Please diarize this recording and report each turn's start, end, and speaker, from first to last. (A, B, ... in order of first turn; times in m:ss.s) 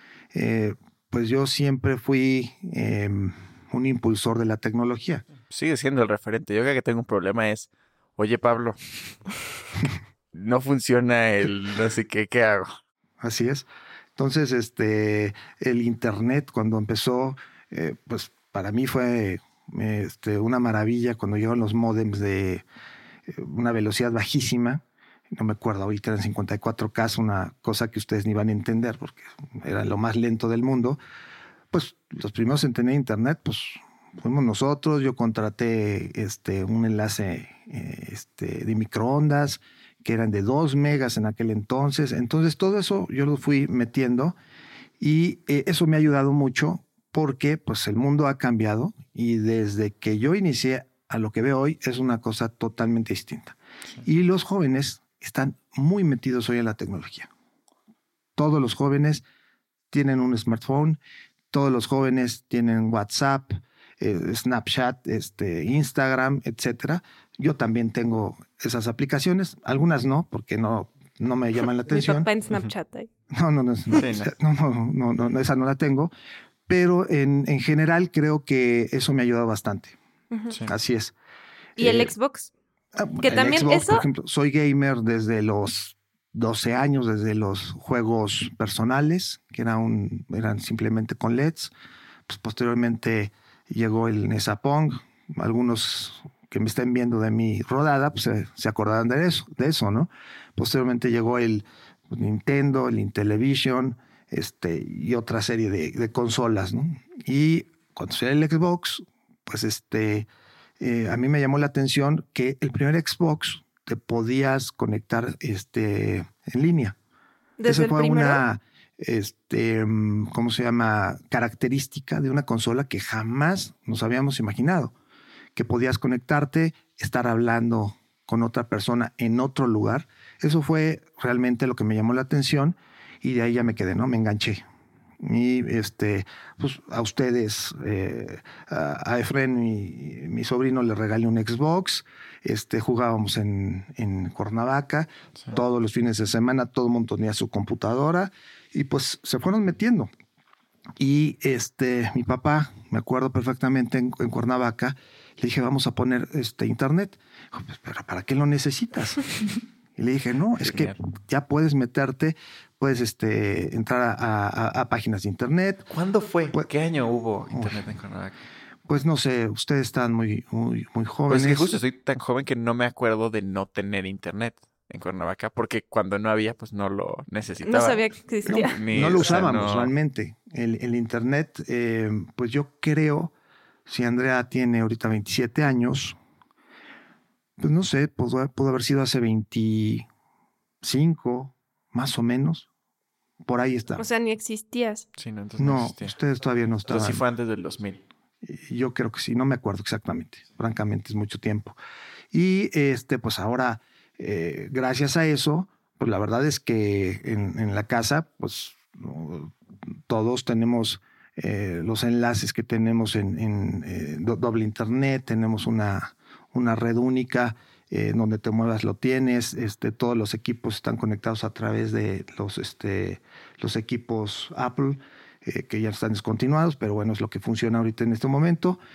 0:00.3-0:05.2 A
0:05.5-0:08.8 B
0:10.3-0:12.7 B
0:13.2-0:22.6 A
0:23.3-0:31.0 A
0:31.7-0:44.4 A
0:45.0-0:57.3 A
0:58.4-0:59.2 A
0:59.9-1:01.0 A
1:01.5-1:12.3 A
1:11.9-1:13.1 C
1:13.3-1:16.1 A
1:13.9-1:14.3 B
1:16.7-1:20.0 A
1:20.7-1:21.1 A
1:21.8-1:22.5 C
1:21.8-1:22.1 A
1:23.0-1:31.7 A
1:23.2-1:24.1 C
1:32.3-1:50.3 A
1:50.8-1:57.0 A
1:57.6-1:58.4 C
1:57.7-2:04.9 A
2:05.6-2:14.6 A
2:15.2-2:30.1 A
2:31.0-2:39.2 A
2:40.0-2:45.9 A
2:40.6-2:41.0 B
2:45.9-2:48.4 B
2:47.5-2:47.8 A
2:48.9-2:51.8 A
2:51.3-2:59.9 B
2:57.6-2:58.8 C
2:58.5-3:03.3 A
3:03.9-3:06.2 A
3:07.6-3:10.0 A
3:10.8-3:12.7 A
3:13.4-3:14.1 A
3:14.0-3:15.1 C
3:15.2-3:16.2 B
3:15.6-3:17.2 A
3:16.9-3:18.0 B
3:18.4-3:21.8 A
3:22.3-3:48.8 A